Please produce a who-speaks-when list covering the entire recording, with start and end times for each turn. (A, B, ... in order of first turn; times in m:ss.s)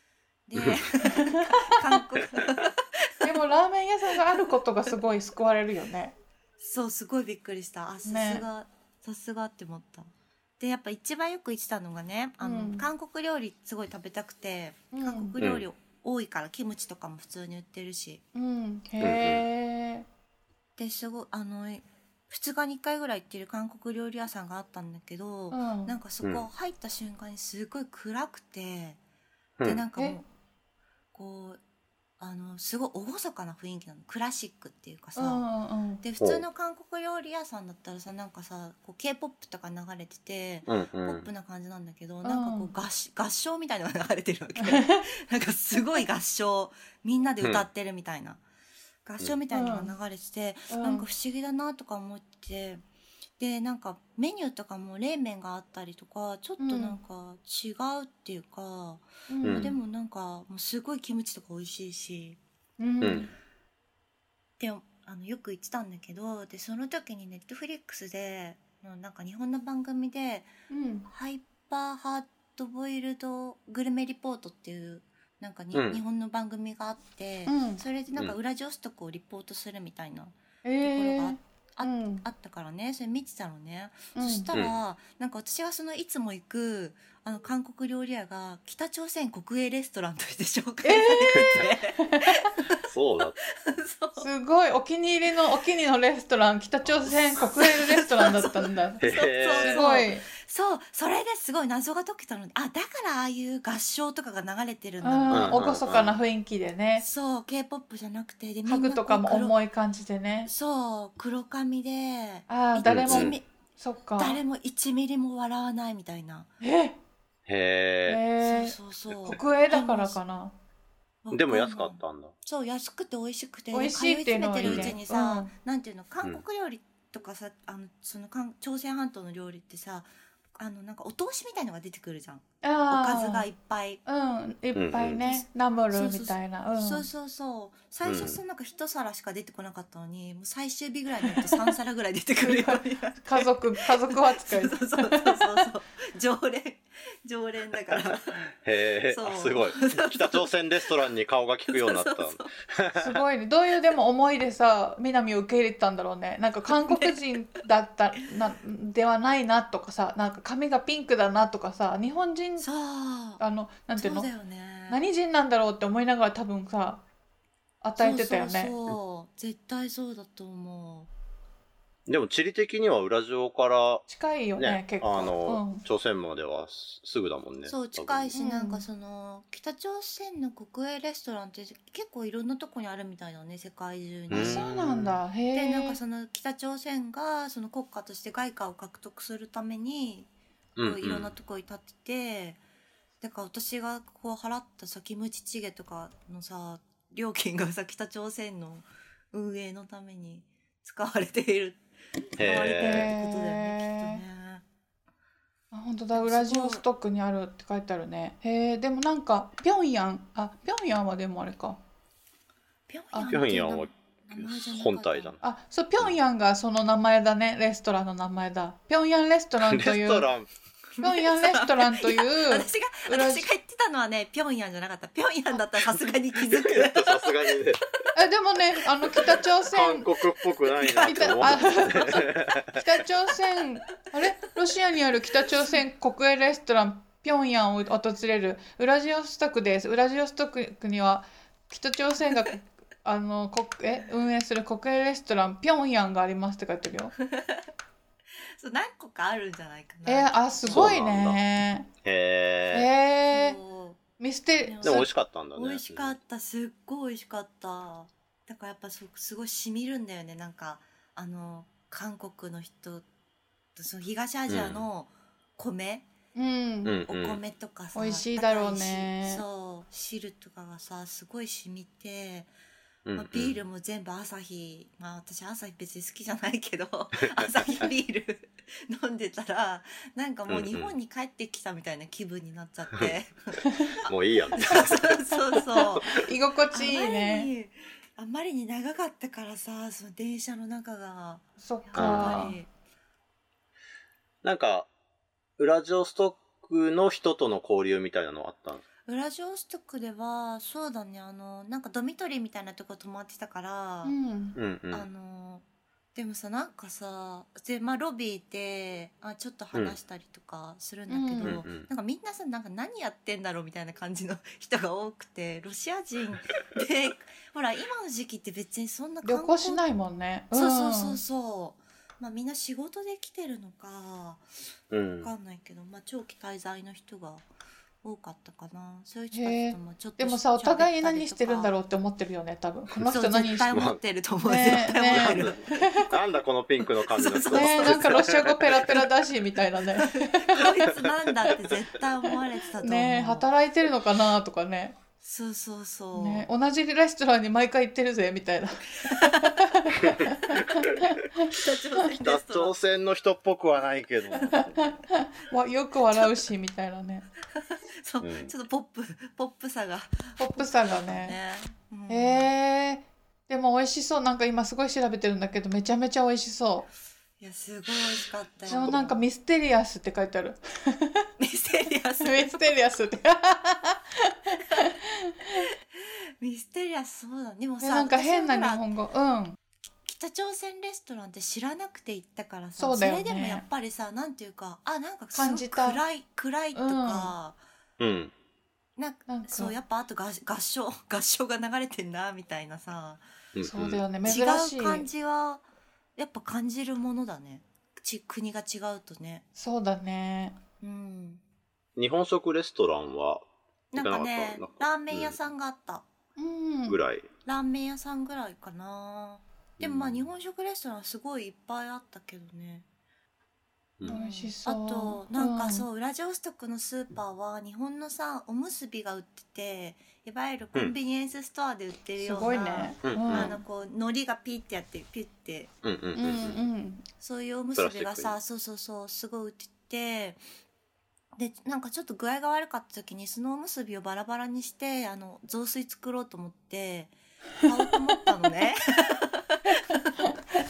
0:00.5-0:02.7 A
0:01.2-0:01.6 B
0:03.2-0:06.2 B
0:06.6-0:18.2 A
0:08.1-0:08.4 B
0:12.4-0:12.9 B
0:14.9-0:15.3 B
0:15.4-0:15.6 C
0:18.3-0:20.1 B
0:19.0-0:19.5 C
0:20.8-0:29.0 A
0:25.5-0:26.0 B
0:26.2-0:26.5 C
0:29.6-0:30.3 A
0:31.1-0:31.6 A
0:32.2-0:35.5 A
0:35.2-0:36.0 B
0:36.0-0:48.4 A
0:40.7-0:41.3 C
0:42.2-0:42.7 B
0:44.6-0:45.0 B
0:49.0-0:52.8 A
0:49.5-0:49.9 B
0:50.7-0:51.1 B
0:53.4-1:02.4 A
0:56.6-0:57.0 B
0:59.3-0:59.7 B
0:59.4-0:59.7 C
1:02.8-1:03.3 B
1:03.0-1:03.3 C
1:04.6-1:10.5 A
1:10.7-1:11.1 B
1:11.1-1:32.8 A
1:15.7-1:16.0 C
1:17.5-1:17.8 B
1:20.6-1:22.2 B
1:24.2-1:24.5 B
1:30.8-1:32.3 B
1:32.9-1:33.4 C
1:33.7-1:34.3 A
1:34.2-1:39.0 B
1:36.8-1:37.3 C
1:37.4-1:46.0 A
1:39.0-1:39.8 C
1:39.6-1:40.2 B
1:45.0-1:47.1 B
1:45.3-1:46.2 C
1:47.0-1:49.6 A
1:48.7-1:50.5 B
1:50.4-1:53.5 A
1:52.5-1:54.4 B
1:52.8-1:53.4 C
1:54.2-1:56.5 A
1:56.6-1:57.0 B
1:57.5-1:58.2 C
1:58.1-1:58.8 B
1:58.4-2:00.2 A
1:59.1-1:59.4 C
1:59.3-2:00.6 B
2:01.2-2:14.0 A
2:01.3-2:02.3 C
2:03.7-2:05.5 B
2:04.6-2:05.0 C
2:12.6-2:13.5 B
2:14.1-2:17.1 B
2:14.8-2:15.2 C
2:15.2-2:28.4 A
2:18.0-2:18.4 C
2:21.3-2:21.6 B
2:22.4-2:25.4 B
2:28.0-2:33.2 C
2:29.1-2:30.5 A
2:31.7-2:32.5 A
2:33.0-2:42.7 B
2:36.7-2:37.2 A
2:42.6-2:43.4 A
2:43.4-2:44.3 B
2:43.9-2:45.0 A
2:44.9-2:47.0 B
2:47.8-2:48.7 B
2:48.0-2:51.1 A
2:52.1-2:58.3 C
2:54.1-2:55.8 B
2:57.6-3:04.8 A
2:58.3-2:58.8 B
3:04.3-3:05.2 C
3:04.3-3:06.0 B
3:05.5-3:12.6 A
3:10.8-3:11.3 C
3:13.2-3:21.8 A
3:22.3-3:24.6 A
3:22.4-3:23.1 C
3:22.4-3:24.2 B
3:25.7-3:31.8 B
3:26.1-3:26.8 A
3:32.9-3:35.4 A
3:33.1-3:33.4 B
3:33.3-3:35.4 C
3:35.4-3:40.3 B
3:39.6-3:40.5 C
3:41.0-3:47.6 A
3:41.0-3:43.5 B
3:46.5-3:47.8 C
3:48.2-3:50.1 B
3:49.7-3:52.6 C
3:50.8-4:07.1 B
3:51.0-3:52.3 A
4:08.6-4:11.0 A
4:10.1-4:11.9 B
4:10.6-4:11.4 C
4:12.0-4:12.9 C
4:12.7-4:13.6 B
4:13.3-4:14.0 A
4:14.2-4:15.1 B
4:14.6-4:23.0 A
4:14.8-4:16.2 C
4:23.8-4:26.1 A
4:24.5-4:24.8 C
4:26.4-4:26.9 B
4:26.8-4:27.4 C
4:27.0-4:32.5 A
4:28.0-4:29.4 B
4:33.1-4:33.6 C
4:33.2-4:43.9 A
4:40.5-4:40.9 C
4:44.1-4:45.2 C
4:44.6-4:52.7 A
4:46.0-4:47.5 B
4:51.6-4:52.6 B
4:52.0-4:52.5 C
4:54.4-4:54.9 C
4:55.6-4:58.8 C
4:59.1-5:04.2 A
5:04.0-5:04.6 B
5:04.6-5:05.1 C
5:04.9-5:19.8 A
5:11.1-5:11.7 B
5:11.4-5:11.8 C
5:19.2-5:21.2 B
5:20.5-5:24.4 A
5:24.9-5:25.3 C
5:25.2-5:27.5 A
5:28.0-5:31.8 A
5:29.3-5:33.8 B
5:33.0-5:35.7 A
5:33.7-5:34.0 C
5:34.4-5:36.1 B
5:35.0-5:39.0 C
5:36.8-5:38.2 A
5:37.5-5:40.7 B
5:40.0-5:43.5 A
5:42.8-5:45.0 B
5:45.2-5:46.5 A
5:46.1-5:51.0 B
5:51.5-5:52.8 A
5:52.2-5:54.9 C
5:54.3-5:54.6 A
5:54.6-5:57.2 B
5:58.0-6:02.5 A
5:58.2-5:58.5 C
6:00.4-6:01.4 B
6:02.1-6:06.9 B
6:07.4-6:09.2 A
6:08.7-6:11.2 B
6:11.4-6:12.9 A
6:12.2-6:15.0 B
6:16.4-6:18.9 A
6:17.8-6:19.6 B
6:20.0-6:27.6 A
6:22.8-6:23.7 B
6:25.3-6:26.0 B
6:26.7-6:27.3 B
6:28.0-6:28.3 C
6:29.0-6:33.2 A
6:29.3-6:29.7 B
6:33.6-6:34.0 C
6:33.6-6:35.1 B
6:34.2-6:35.6 A
6:36.2-6:39.4 A
6:39.6-6:40.6 B
6:40.8-6:41.4 A
6:42.0-6:43.4 C
6:43.9-6:46.0 A
6:44.0-6:45.4 C
6:46.4-6:47.0 B
6:46.9-6:47.3 C
6:47.4-6:52.9 A
6:49.8-6:50.2 C
6:54.0-6:55.9 B
6:54.0-7:05.7 A
7:02.2-7:03.6 B
7:03.0-7:03.5 C
7:05.8-7:06.6 C
7:06.2-7:07.0 B
7:07.2-7:10.4 A
7:07.8-7:08.4 C
7:11.4-7:18.8 A